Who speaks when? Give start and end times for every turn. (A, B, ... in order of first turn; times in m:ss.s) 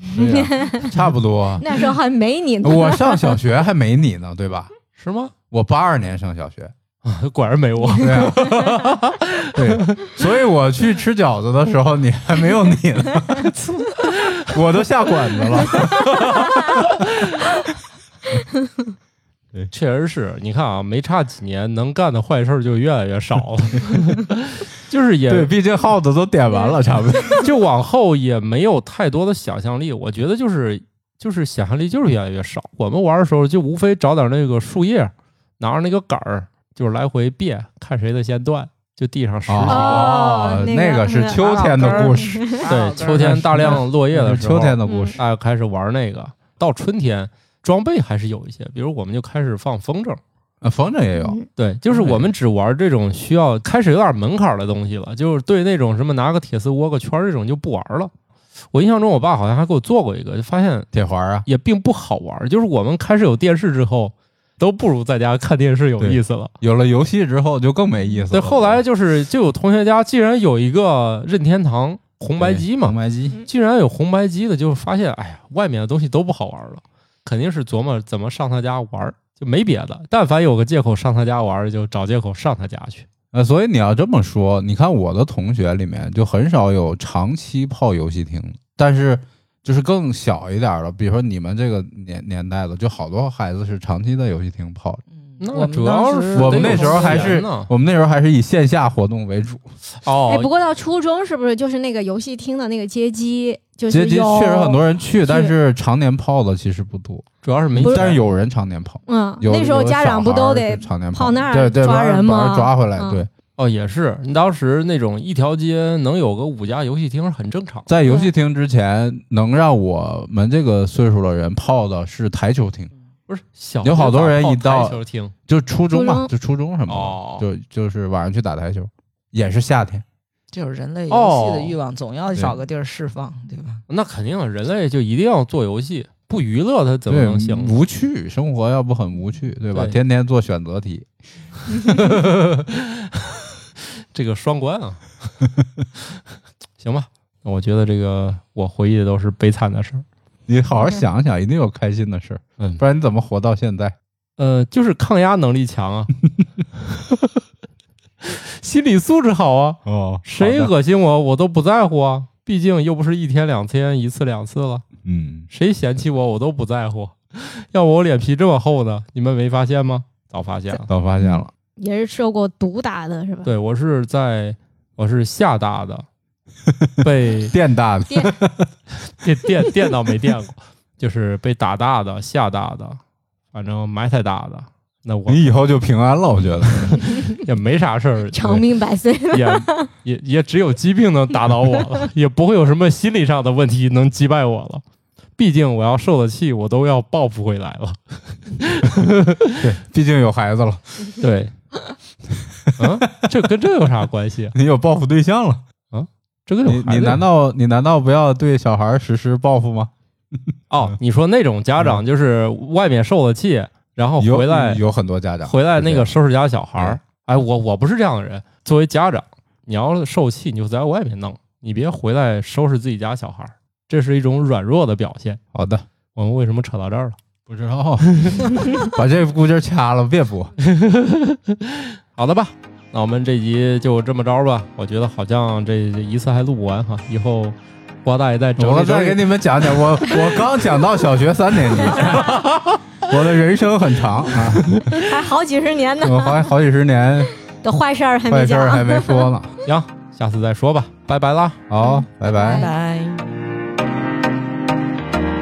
0:00.1-0:00.9 A
0:00.1-0:01.7 B
0:01.6-0:03.4 A
0:02.6-0:04.7 B
0:05.0-0:05.3 C
0:05.5-0:06.7 B
0:07.0-0:10.2 C
0:08.0-0:08.4 B
0:09.5-0:16.8 B
0:14.2-0:14.4 C
0:15.8-0:16.5 A
0:15.9-0:17.0 C
0:19.7-0:25.5 C
0:25.3-0:27.4 B
0:27.2-0:40.2 C
0:39.5-0:45.2 B
0:39.7-0:42.7 A
0:41.3-0:43.4 D
0:42.7-0:50.2 C
0:44.8-0:45.2 A
0:50.6-0:51.4 B
0:51.2-0:51.5 A
0:51.6-0:58.1 C
0:51.9-0:52.3 B
0:58.7-1:00.9 C
1:00.9-1:01.4 B
1:01.4-1:06.5 C
1:06.0-1:08.8 B
1:08.3-1:23.1 C
1:12.4-1:13.4 B
1:23.3-1:35.0 B
1:35.1-1:37.4 D
1:35.4-1:37.7 C
1:36.3-1:39.7 B
1:40.0-1:40.5 C
1:40.3-1:45.5 A
1:43.9-1:53.3 B
1:47.4-1:48.2 C
1:47.8-1:48.1 A
1:49.1-1:53.2 A
1:53.6-1:57.9 C
1:57.9-2:02.9 B
1:58.0-1:58.3 A
2:03.3-2:05.3 C
2:03.8-2:10.0 B
2:05.9-2:06.3 A
2:06.9-2:07.4 C
2:10.5-2:13.8 D
2:11.1-2:11.8 C
2:13.9-2:17.8 C
2:17.1-2:21.1 B
2:21.8-2:23.4 C
2:24.1-2:25.1 C
2:26.8-2:30.0 C
2:30.5-2:34.0 B
2:34.4-2:36.1 C
2:36.9-2:37.4 C
2:38.2-2:44.8 C
2:39.8-2:40.7 B
2:45.0-2:45.5 B
2:45.5-2:50.9 C
2:50.9-2:51.5 B
2:51.8-2:53.5 A
2:53.4-2:56.0 C
2:56.8-2:58.7 B
2:57.0-2:57.6 C
2:58.1-2:58.3 A
2:59.1-3:03.0 C
3:03.5-3:05.4 C
3:05.3-3:07.0 B
3:06.7-3:08.6 C
3:08.3-3:09.9 A
3:09.3-3:14.8 C
3:15.4-3:19.6 C
3:19.6-3:20.8 B
3:21.2-3:21.5 C
3:22.7-3:23.3 B
3:22.8-3:24.5 C
3:24.5-3:25.6 B
3:25.9-3:27.2 C
3:26.7-3:29.9 B
3:30.7-3:34.8 C
3:34.2-3:36.1 B
3:35.4-3:45.4 C
3:45.5-3:45.8 B
3:46.1-3:47.2 C
3:47.5-3:50.5 B
3:48.0-3:48.6 C
3:50.6-4:00.3 C
3:58.6-4:02.4 B
4:01.9-4:02.8 C
4:03.1-4:04.8 B
4:04.6-4:05.0 C
4:04.9-4:06.5 A
4:06.0-4:07.3 B
4:07.6-4:09.3 A
4:08.3-4:09.6 B
4:09.6-4:11.6 C
4:11.7-4:12.7 B
4:11.8-4:12.7 A
4:12.5-4:13.2 D